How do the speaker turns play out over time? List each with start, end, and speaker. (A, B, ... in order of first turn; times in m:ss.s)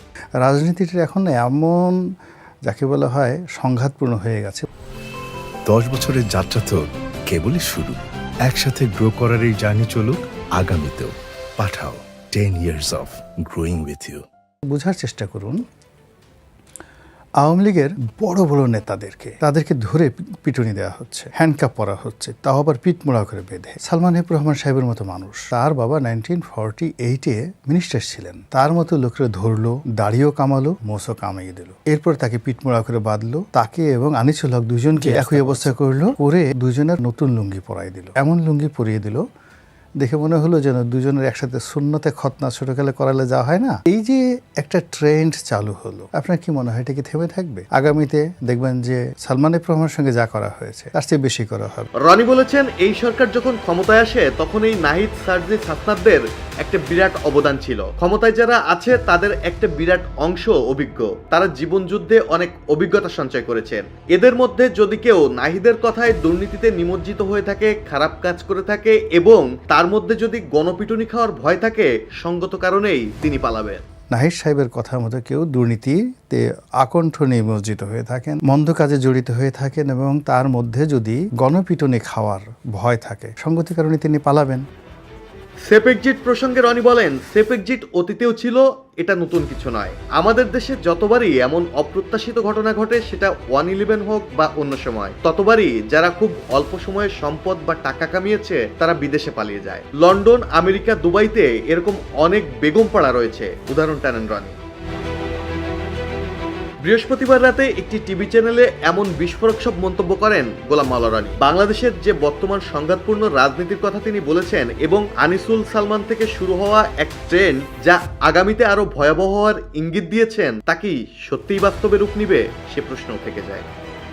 0:00.4-0:02.0 A
0:02.7-0:04.7 A
0:05.7-0:14.2 B
0:14.7-0:15.6 A
0:17.4-0:39.2 A
0:40.0-0:51.9 A
0:52.0-1:13.8 C
1:14.1-1:24.6 A
1:25.7-1:44.6 C
1:46.8-2:03.7 C